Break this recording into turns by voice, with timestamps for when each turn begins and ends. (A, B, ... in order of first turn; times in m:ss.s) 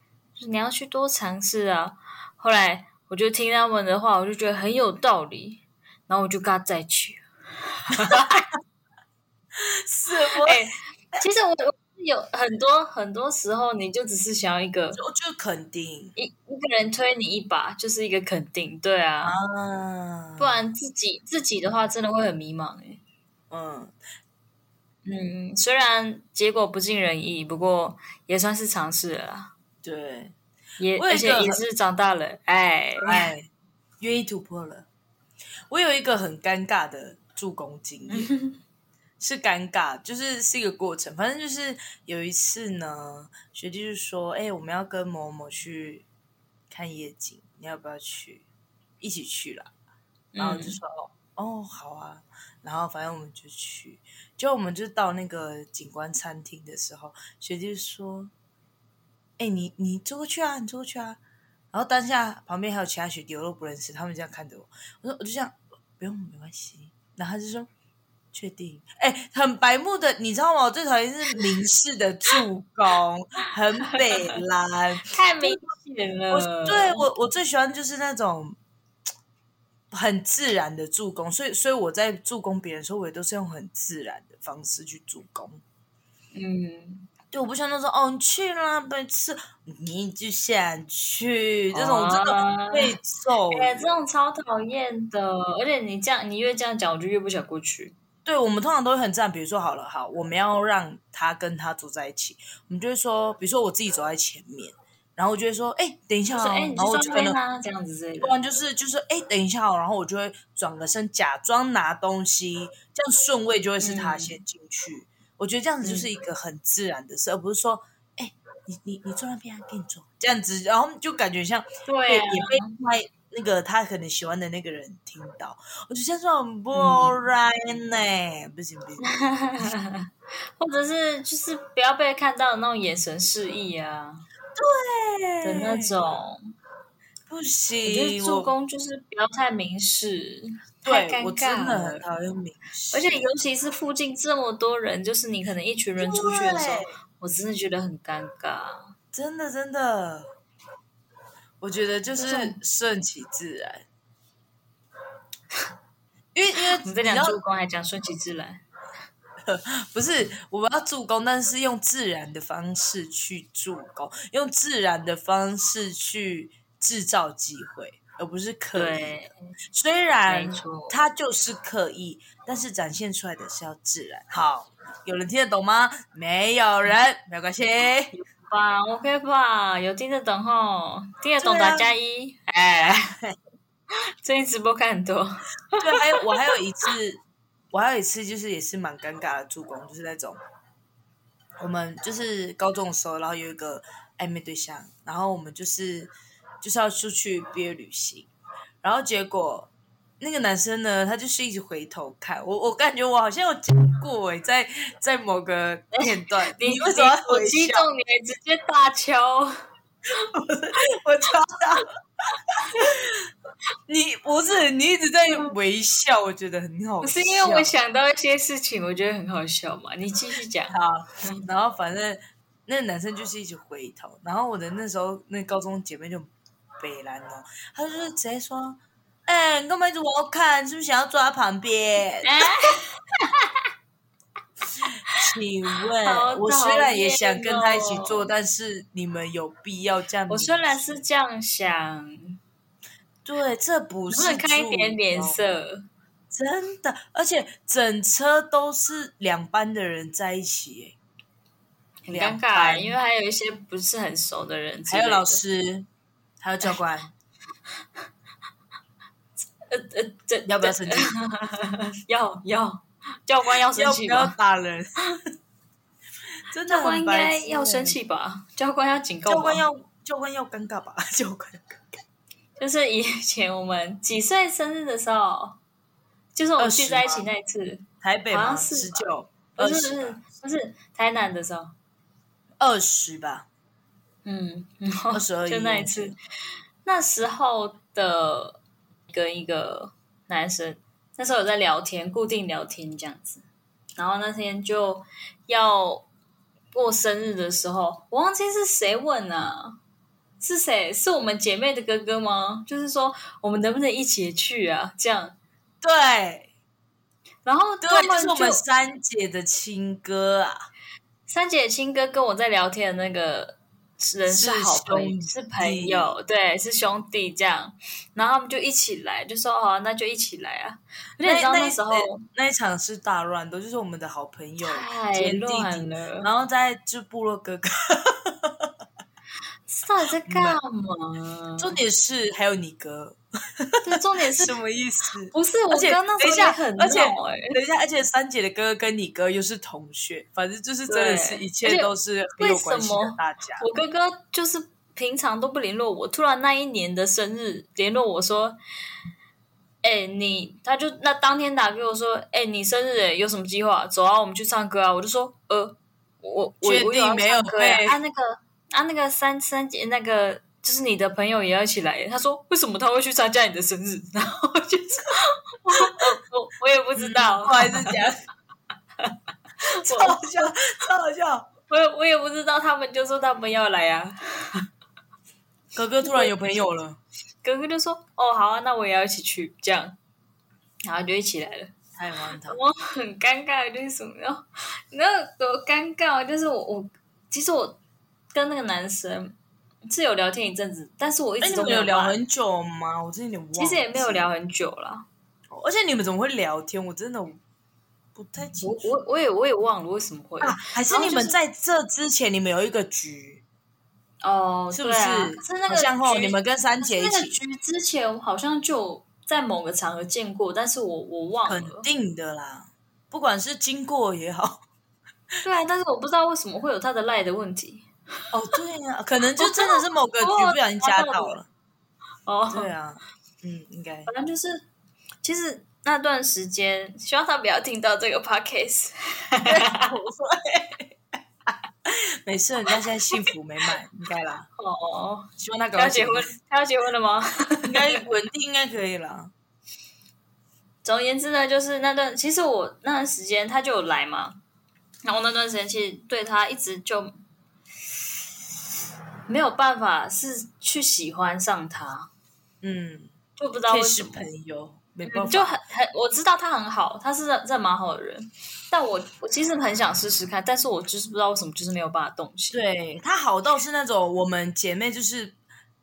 0:00.4-0:08.4 A
0:07.9-0:08.4 B
0:09.6-0:11.2 B
0:10.4-0:15.0 A
0:14.9-0:16.1 B
0:16.2-0:19.4 A
0:19.2-0:20.6 B
0:20.4-0:23.0 A
0:23.5-0:23.9 B
0:25.0-0:29.5 A
0:29.8-0:30.3 B
0:30.8-0:33.3 A
0:31.0-0:31.6 B
0:33.0-0:33.5 B
0:34.0-0:34.9 B
0:35.7-0:38.3 B
0:38.1-0:38.6 A
0:39.2-0:46.0 B
0:46.7-0:48.4 B
0:49.0-0:49.7 B
0:50.3-0:50.8 A
0:50.4-0:58.3 B
0:59.4-1:01.2 B
1:01.7-1:07.7 B
1:08.3-1:15.6 B
1:13.9-1:14.4 A
1:15.1-1:17.1 A
1:16.3-1:18.6 B
1:19.9-1:25.6 B
1:26.3-1:27.1 A
1:27.3-1:33.9 B
1:31.7-1:33.0 A
1:33.5-1:38.0 A
1:38.2-1:47.4 B
1:46.3-1:48.3 A
1:48.2-2:09.7 B
1:53.8-1:54.4 A
1:55.8-1:56.1 A
2:01.9-2:02.7 A
2:06.7-2:07.2 A
2:09.0-2:14.2 A
2:14.6-2:16.0 B
2:15.4-2:16.4 A
2:17.3-2:18.5 B
2:17.8-2:22.0 A
2:20.8-2:23.2 B
2:22.9-2:28.9 A
2:26.0-2:26.9 B
2:29.1-2:30.3 B
2:31.6-2:33.8 B
2:32.2-2:32.6 A
2:36.3-2:37.4 B
2:36.8-2:38.6 A
2:39.4-2:49.2 B
2:48.7-2:49.3 A
2:49.7-2:58.1 B
2:50.3-2:51.0 A
2:58.1-3:03.2 A
3:01.4-3:01.9 B
3:04.2-3:06.2 A
3:05.8-3:07.2 B
3:07.7-3:10.4 B
3:11.6-3:18.3 B
3:18.8-3:27.9 B
3:26.0-3:29.5 A
3:30.3-3:31.9 B
3:32.5-3:33.2 B
3:33.9-3:37.7 B
3:37.0-3:41.4 A
3:40.7-3:52.5 B
3:52.2-3:53.5 A
3:54.9-4:01.0 B
3:56.0-3:58.3 A
4:00.3-4:02.4 A
4:03.2-4:05.4 B
4:04.1-4:05.8 A
4:06.3-4:11.0 B
4:12.0-4:15.4 A
4:12.1-4:13.0 B
4:14.9-4:15.9 B
4:16.4-4:17.1 B
4:19.7-4:24.3 A
4:20.4-4:21.1 B
4:23.7-4:24.9 B
4:26.5-4:28.0 B
4:26.7-4:29.6 A
4:29.2-4:32.0 B
4:32.6-4:35.6 A
4:36.3-4:41.7 A
4:36.6-4:37.3 B
4:38.0-4:40.2 B
4:42.6-4:43.5 B
4:44.2-4:46.2 A
4:45.1-4:46.1 B
4:46.8-4:53.4 A
4:54.0-4:56.1 A
4:56.7-4:59.8 A
5:00.4-5:05.4 A
5:05.8-5:06.5 B
5:07.4-5:08.6 A
5:07.8-5:10.7 B
5:11.3-5:22.2 A
5:14.3-5:16.1 B
5:21.2-5:28.7 B
5:24.6-5:26.3 A
5:29.7-5:31.8 A
5:30.2-5:30.6 B
5:31.6-5:43.6 B
5:33.8-5:34.5 A
5:35.3-5:37.6 A
5:40.9-5:48.6 A
5:49.8-6:08.0 A
5:56.6-5:58.0 B
6:07.0-6:08.2 B
6:09.0-6:10.2 A
6:09.8-6:11.5 B
6:11.7-6:14.6 A
6:15.7-6:17.0 B
6:16.0-6:16.7 A
6:17.4-6:20.0 A
6:20.8-6:21.7 A
6:22.0-6:22.6 B
6:22.4-6:27.8 A
6:28.3-6:29.3 A
6:29.9-6:32.2 A
6:31.4-6:34.3 B
6:33.6-6:35.0 A
6:35.5-6:37.4 B
6:38.1-6:38.9 B
6:38.6-6:41.4 A
6:40.4-6:43.4 B
6:44.2-6:51.9 A
6:44.7-6:47.4 B
6:51.5-6:54.6 B
6:55.4-6:57.9 A
6:58.3-7:01.5 B
6:59.4-7:01.3 A
7:02.2-7:02.7 A
7:02.5-7:04.1 B
7:04.1-7:04.6 A
7:05.2-7:09.9 A
7:09.4-7:10.9 B
7:11.5-7:14.5 B
7:14.6-7:18.0 A
7:15.4-7:16.3 B
7:17.6-7:19.3 B
7:20.8-7:24.4 A
7:25.0-7:27.1 A
7:29.3-7:32.1 A
7:32.6-7:33.1 B
7:33.4-7:34.2 A
7:33.7-7:35.6 B
7:35.0-7:42.6 A
7:42.5-7:45.4 B